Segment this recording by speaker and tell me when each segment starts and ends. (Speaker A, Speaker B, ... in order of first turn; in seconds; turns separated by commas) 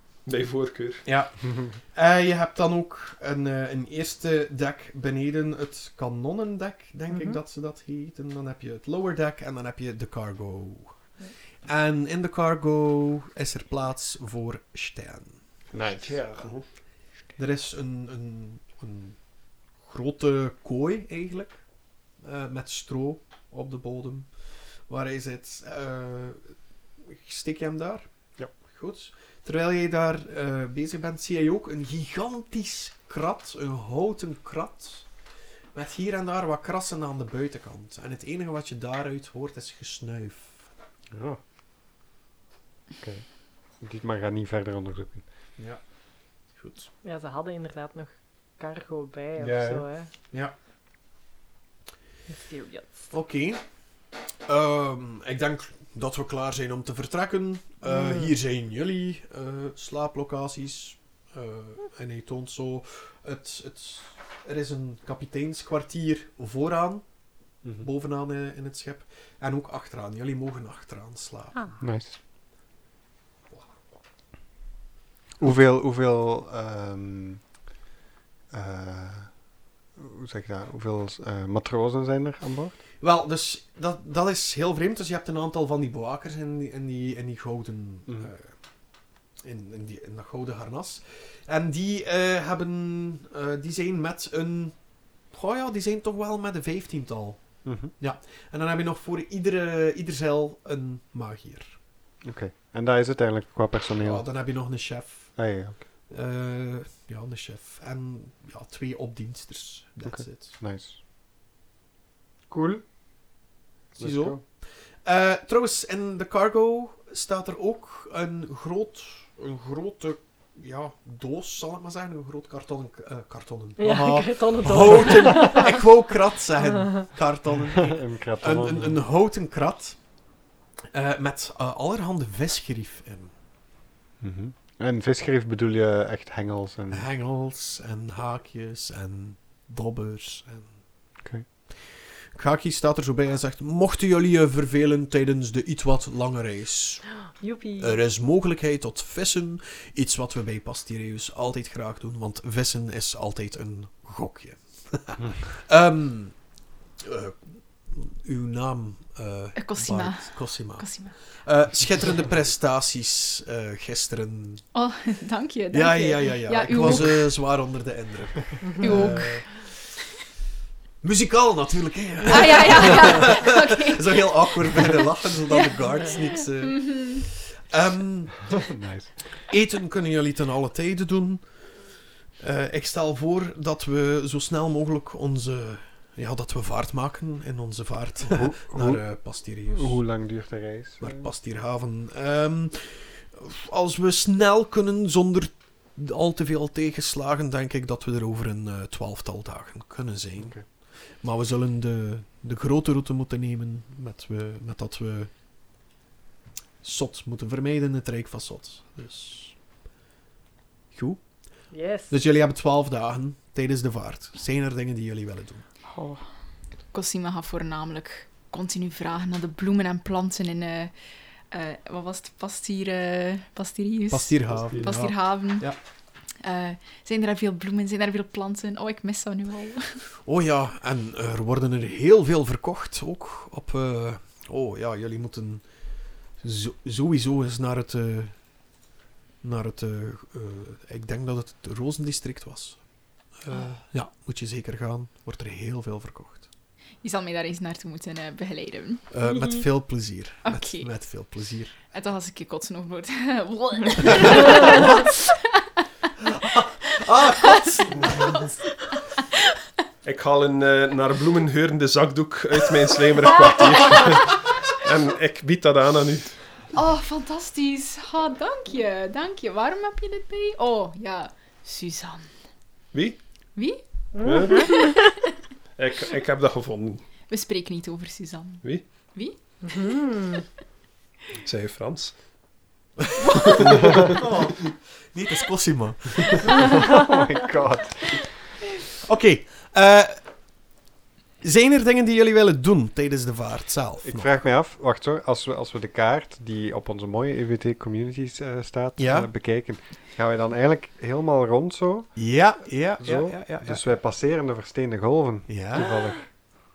Speaker A: 0.2-1.0, Speaker B: 1.0-11.0, Speaker B: 11.6-15.4, Speaker C: 15.7-16.4, Speaker A: 15.9-16.6, Speaker B: 17.4-19.1, Speaker B: 19.8-21.6, Speaker B: 22.2-24.3, Speaker B: 24.9-28.1, Speaker B: 28.6-35.1, Speaker B: 35.7-40.6, Speaker C: 41.1-41.4, Speaker C: 43.0-45.2, Speaker B: 46.5-46.9, Speaker D: 47.0-50.1, Speaker C: 49.4-49.9, Speaker D: 52.3-52.9, Speaker B: 53.1-53.6, Speaker B: 54.5-67.0, Speaker D: 57.9-58.3, Speaker B: 67.8-71.8, Speaker C: 71.8-72.2, Speaker C: 75.4-77.4, Speaker C: 78.5-79.3, Speaker C: 80.0-82.7, Speaker B: 83.0-88.5, Speaker B: 89.4-94.8, Speaker B: 95.3-97.4, Speaker C: 97.6-97.9, Speaker B: 98.0-101.8, Speaker C: 102.2-104.2, Speaker B: 104.0-105.3, Speaker C: 105.3-105.8, Speaker B: 106.1-110.6, Speaker C: 110.0-111.0, Speaker C: 112.5-112.8, Speaker C: 114.0-114.4, Speaker B: 114.0-130.0, Speaker D: 123.8-125.8, Speaker C: 127.7-129.0, Speaker B: 130.9-133.3, Speaker C: 134.2-137.1, Speaker B: 136.9-140.7, Speaker B: 142.3-147.0, Speaker D: 147.4-148.0, Speaker B: 147.8-156.4, Speaker B: 157.0-164.6, Speaker E: 159.6-161.1, Speaker E: 164.7-167.2, Speaker B: 165.7-169.8, Speaker E: 168.8-169.5, Speaker B: 171.0-178.6, Speaker E: 172.3-174.2, Speaker E: 176.8-177.2, Speaker C: 178.5-179.4, Speaker B: 179.5-181.4, Speaker B: 182.4-190.0, Speaker C: 188.3-191.3, Speaker B: 191.0-200.6, Speaker B: 201.2-205.3, Speaker B: 206.8-209.6, Speaker B: 210.9-211.2, Speaker D: 211.7-212.1, Speaker B: 212.1-215.6, Speaker E: 216.9-220.9, Speaker E: 221.5-225.7, Speaker B: 224.1-225.8, Speaker E: 226.4-230.0, Speaker B: 230.2-235.6, Speaker B: 236.4-238.3, Speaker B: 239.4-242.8, Speaker B: 243.4-246.5, Speaker E: 247.0-249.0, Speaker B: 249.1-251.8, Speaker E: 250.4-250.9, Speaker E: 251.9-255.6, Speaker B: 254.1-255.0, Speaker B: 256.2-258.6, Speaker E: 257.4-258.2, Speaker A: 260.0-266.4, Speaker E: 266.7-272.3, Speaker A: 272.9-273.2, Speaker E: 273.5-273.8, Speaker A: 274.2-274.8, Speaker D: 274.3-274.7, Speaker E: 274.6-274.9, Speaker A: 275.8-277.1, Speaker E: 277.3-279.8, Speaker D: 279.7-280.4, Speaker A: 281.4-282.1, Speaker B: 283.1-286.7, Speaker A: 283.4-284.1, Speaker C: 286.6-288.3, Speaker B: 289.0-290.2, Speaker B: 291.4-294.3, Speaker C: 294.0-302.2, Speaker B: 299.0-299.3, Speaker B: 302.1-303.8, Speaker C: 303.0-306.3, Speaker B: 305.5-305.9